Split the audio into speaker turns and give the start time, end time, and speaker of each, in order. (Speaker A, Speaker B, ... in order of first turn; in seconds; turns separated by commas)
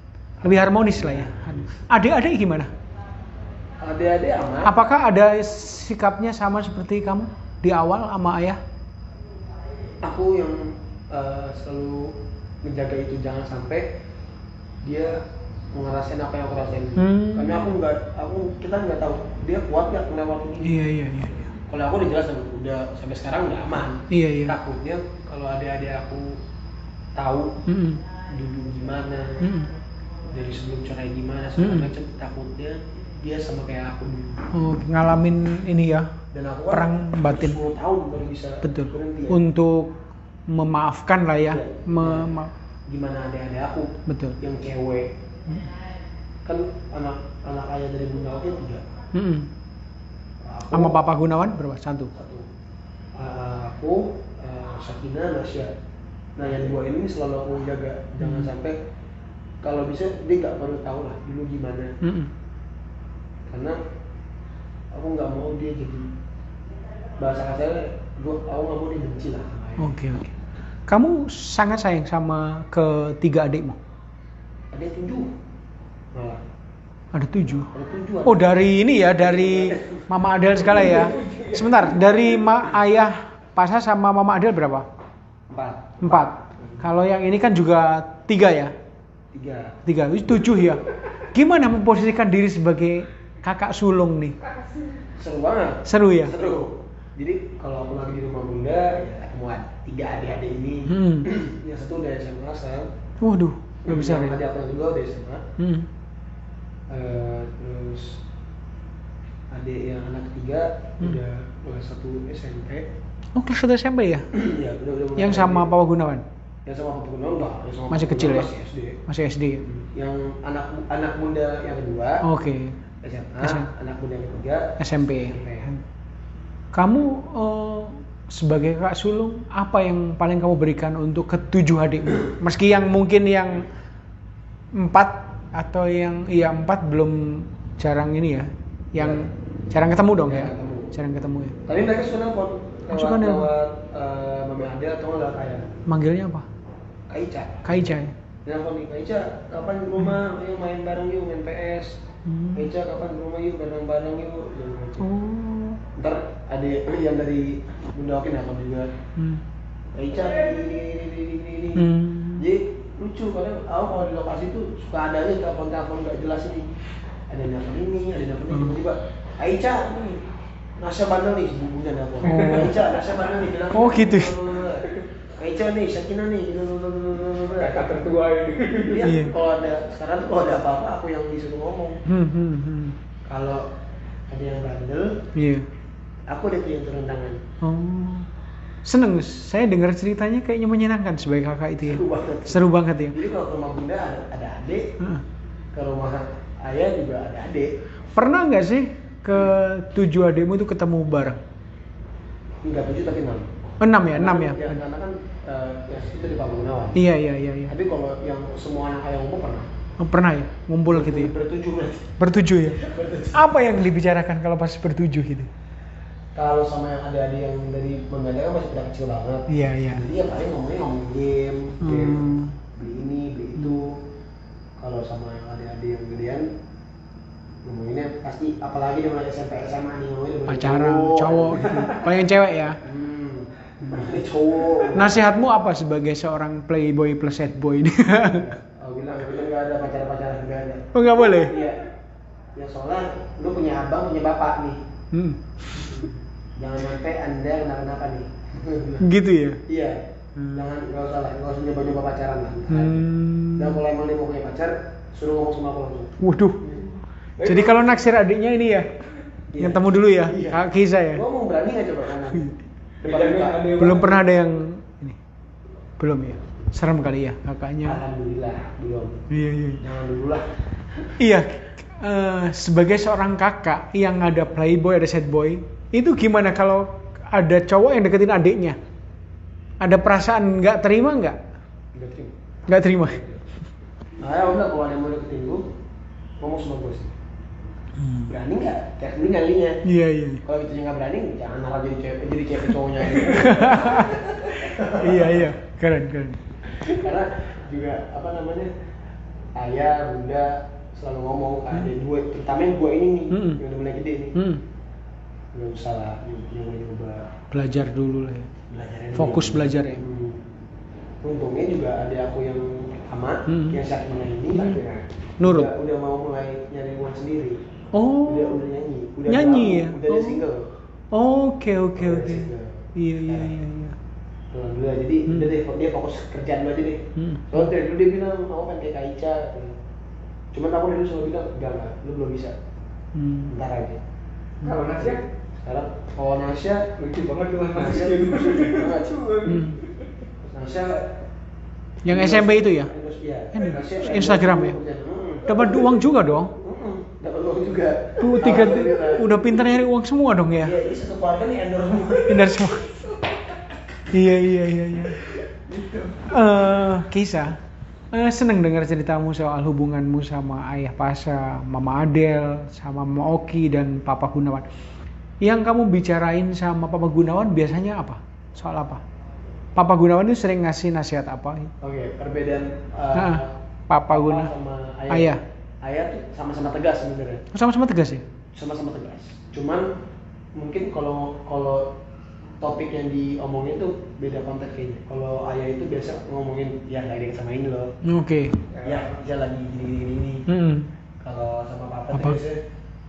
Speaker A: 0.4-1.7, Speaker B: 0.4-2.7, Speaker A: 3.8-4.8, Speaker B: 4.6-8.6, Speaker A: 10.0-13.9, Speaker A: 14.8-15.2, Speaker A: 15.7-20.8, Speaker B: 17.0-17.7, Speaker B: 20.6-21.5, Speaker A: 21.7-26.4, Speaker B: 24.1-24.6, Speaker A: 27.2-27.6, Speaker B: 27.7-28.0, Speaker A: 28.3-29.5, Speaker B: 29.4-29.7, Speaker A: 30.3-34.5, Speaker B: 31.6-31.9, Speaker B: 34.5-36.1, Speaker A: 36.3-39.4, Speaker B: 36.7-37.6, Speaker B: 38.6-42.5, Speaker A: 41.4-42.3, Speaker A: 42.9-45.1, Speaker B: 44.1-44.4, Speaker A: 46.5-48.8, Speaker B: 49.1-49.5, Speaker A: 50.4-51.0, Speaker B: 50.7-52.1, Speaker A: 52.1-52.5, Speaker A: 53.2-55.7, Speaker A: 56.4-58.8, Speaker B: 58.2-58.5, Speaker A: 59.6-61.9, Speaker B: 62.0-62.3, Speaker A: 63.5-63.8, Speaker A: 64.9-66.1, Speaker A: 67.2-69.9, Speaker B: 69.8-70.4, Speaker B: 70.9-73.8, Speaker A: 74.7-75.3, Speaker A: 76.1-76.4, Speaker B: 77.1-77.7, Speaker A: 77.7-78.6, Speaker B: 78.2-84.9, Speaker A: 79.1-80.1, Speaker C: 80.7-82.2, Speaker A: 85.5-86.0, Speaker B: 86.0-88.7, Speaker A: 89.3-89.8, Speaker B: 89.9-94.4, Speaker A: 95.2-102.9, Speaker B: 95.9-96.3, Speaker B: 100.9-101.3, Speaker B: 103.2-104.4, Speaker A: 103.8-105.5, Speaker B: 105.6-105.9, Speaker A: 106.9-108.2, Speaker A: 109.5-112.9, Speaker B: 113.3-114.3, Speaker A: 114.3-115.7, Speaker B: 115.2-116.2, Speaker A: 116.7-119.0, Speaker B: 117.9-118.5, Speaker B: 119.1-119.6, Speaker A: 119.7-122.3, Speaker B: 122.2-122.8, Speaker A: 123.0-125.8, Speaker B: 123.4-123.7, Speaker B: 124.8-125.8, Speaker B: 126.7-133.7, Speaker B: 134.7-141.6, Speaker A: 139.0-139.3, Speaker A: 140.2-140.9, Speaker A: 141.7-145.7, Speaker B: 142.9-143.5, Speaker B: 145.9-146.5, Speaker A: 147.1-152.0, Speaker B: 147.7-148.1, Speaker B: 152.3-152.7, Speaker A: 152.5-155.1, Speaker B: 155.0-155.8, Speaker A: 155.9-158.9, Speaker B: 159.2-159.4, Speaker A: 159.9-166.7, Speaker B: 161.8-162.5, Speaker A: 167.3-170.2, Speaker A: 170.8-178.1, Speaker B: 172.2-172.8, Speaker C: 172.3-173.3, Speaker B: 173.7-174.5, Speaker C: 177.5-179.2, Speaker A: 178.8-182.0, Speaker B: 179.0-179.3, Speaker B: 182.1-183.0, Speaker A: 183.3-183.7, Speaker A: 184.3-185.2, Speaker B: 185.3-185.7, Speaker A: 186.3-187.4, Speaker B: 187.6-188.3, Speaker B: 188.8-193.2, Speaker A: 191.8-194.9, Speaker A: 195.7-197.7, Speaker B: 198.2-201.4, Speaker A: 202.6-203.5, Speaker B: 203.8-204.8, Speaker A: 204.1-207.0, Speaker B: 206.9-207.7, Speaker A: 207.7-209.7, Speaker B: 210.0-211.3, Speaker A: 210.9-212.2, Speaker B: 212.2-215.5, Speaker A: 212.7-213.5, Speaker A: 216.4-224.0, Speaker B: 219.5-220.0, Speaker B: 221.8-222.6, Speaker A: 224.8-226.5, Speaker A: 227.7-232.1, Speaker B: 230.5-232.8, Speaker A: 232.8-235.2, Speaker B: 234.9-238.6, Speaker A: 238.4-241.9, Speaker B: 240.9-241.6, Speaker A: 242.6-244.8, Speaker B: 245.1-246.1, Speaker A: 245.8-249.1, Speaker B: 249.0-249.6, Speaker A: 249.7-250.0, Speaker B: 250.4-250.6, Speaker A: 250.5-256.2, Speaker B: 252.7-253.8, Speaker B: 256.2-256.8, Speaker C: 257.4-257.9, Speaker B: 257.4-258.9, Speaker A: 259.5-263.8, Speaker B: 259.6-261.2, Speaker C: 263.0-264.2, Speaker B: 263.7-265.2, Speaker B: 266.0-268.0, Speaker A: 267.8-269.3, Speaker B: 269.3-269.8, Speaker A: 269.8-271.1, Speaker B: 271.2-278.8, Speaker B: 279.8-281.4, Speaker A: 281.9-282.4, Speaker B: 282.7-283.2, Speaker A: 283.0-283.4, Speaker A: 284.2-285.6, Speaker A: 286.4-287.2, Speaker B: 288.0-288.3, Speaker A: 288.2-289.8, Speaker B: 289.9-290.4, Speaker A: 290.4-295.6, Speaker B: 293.1-296.4, Speaker A: 296.7-298.7, Speaker A: 299.6-304.4, Speaker B: 303.3-303.6, Speaker B: 304.4-304.6, Speaker A: 305.5-307.3, Speaker B: 307.5-308.5, Speaker A: 308.7-310.4, Speaker B: 309.1-310.0, Speaker A: 311.2-314.9, Speaker B: 313.5-313.8, Speaker B: 314.6-314.8, Speaker C: 314.6-315.0, Speaker B: 315.4-315.7, Speaker A: 315.4-317.6, Speaker B: 317.9-318.6, Speaker A: 318.2-320.7, Speaker B: 319.3-320.4, Speaker B: 321.1-324.0, Speaker A: 322.0-323.6, Speaker A: 324.5-329.8, Speaker B: 327.2-327.7, Speaker A: 330.5-332.6, Speaker B: 333.1-333.5, Speaker A: 333.5-334.0, Speaker C: 334.6-335.2, Speaker A: 335.0-336.9, Speaker C: 337.0-340.0, Speaker A: 337.7-339.3, Speaker B: 339.4-339.8, Speaker A: 340.4-341.1, Speaker B: 342.1-342.9, Speaker A: 342.1-345.8, Speaker B: 343.5-344.8, Speaker B: 345.5-346.5, Speaker A: 346.6-349.4, Speaker B: 348.2-350.8, Speaker A: 350.6-352.7, Speaker B: 352.3-352.9, Speaker B: 354.1-355.2, Speaker A: 355.7-356.1, Speaker B: 356.2-357.6, Speaker B: 358.1-364.7, Speaker B: 365.4-369.0, Speaker B: 369.8-371.7, Speaker A: 371.8-373.5, Speaker B: 373.1-374.5, Speaker A: 374.1-377.4, Speaker B: 375.1-375.4, Speaker B: 377.5-378.2, Speaker A: 378.6-379.9, Speaker A: 380.6-381.9, Speaker A: 382.6-387.9, Speaker B: 388.0-388.6, Speaker C: 388.7-389.1, Speaker A: 388.8-390.5, Speaker B: 390.5-390.9, Speaker A: 391.2-392.6, Speaker B: 392.1-392.4